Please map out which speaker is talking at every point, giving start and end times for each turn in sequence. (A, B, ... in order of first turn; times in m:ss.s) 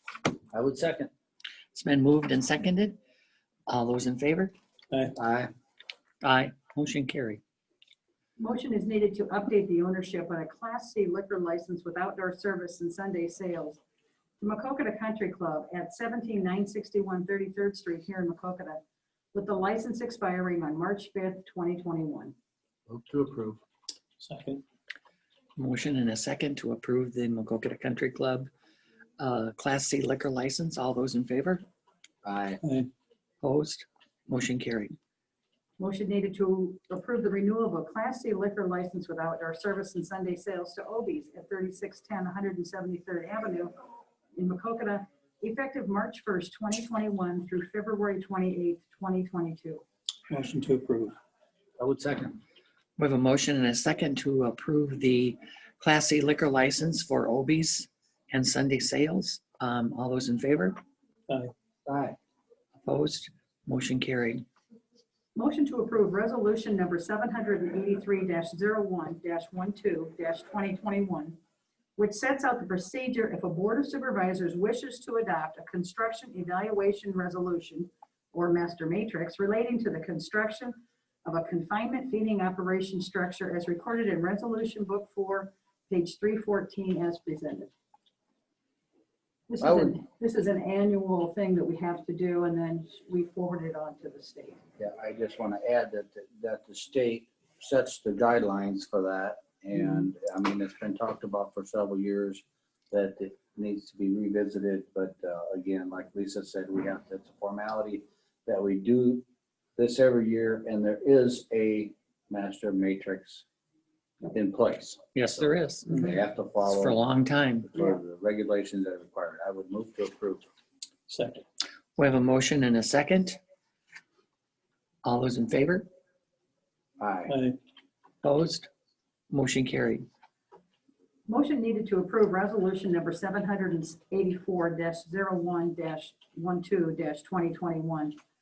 0:00.5-0:01.1 A
0:01.7-0:03.0 B
0:03.7-0:04.5 B
0:05.2-0:05.5 A
0:06.2-0:07.4 B
0:08.4-0:13.8 C
0:14.4-0:18.8 C
0:19.3-0:22.3 C
0:22.9-0:23.6 A
0:24.2-0:24.6 D
0:25.6-0:28.5 B
0:29.2-0:31.6 B
0:32.2-0:32.6 A
0:32.6-0:32.9 D
0:33.4-0:34.9 B
0:35.8-0:43.7 C
0:44.4-0:49.8 C
0:50.3-0:51.2 D
0:51.8-0:52.4 A
0:53.0-1:00.8 B
1:01.9-1:02.2 A
1:02.8-1:04.5 B
1:05.4-1:11.4 C
1:12.0-1:27.7 C
1:29.5-1:34.6 C
1:29.6-1:30.0 A
1:34.8-1:49.2 A
1:49.8-1:53.4 A
1:54.3-1:57.0 A
1:55.1-1:56.0 B
1:56.6-1:57.7 B
1:57.7-2:00.4 A
2:01.1-2:01.4 D
2:02.0-2:03.4 B
2:05.0-2:05.9 B
2:07.0-2:07.4 A
2:07.3-2:07.6 D
2:08.2-2:08.7 B
2:09.3-2:10.1 B
2:11.3-2:18.2 C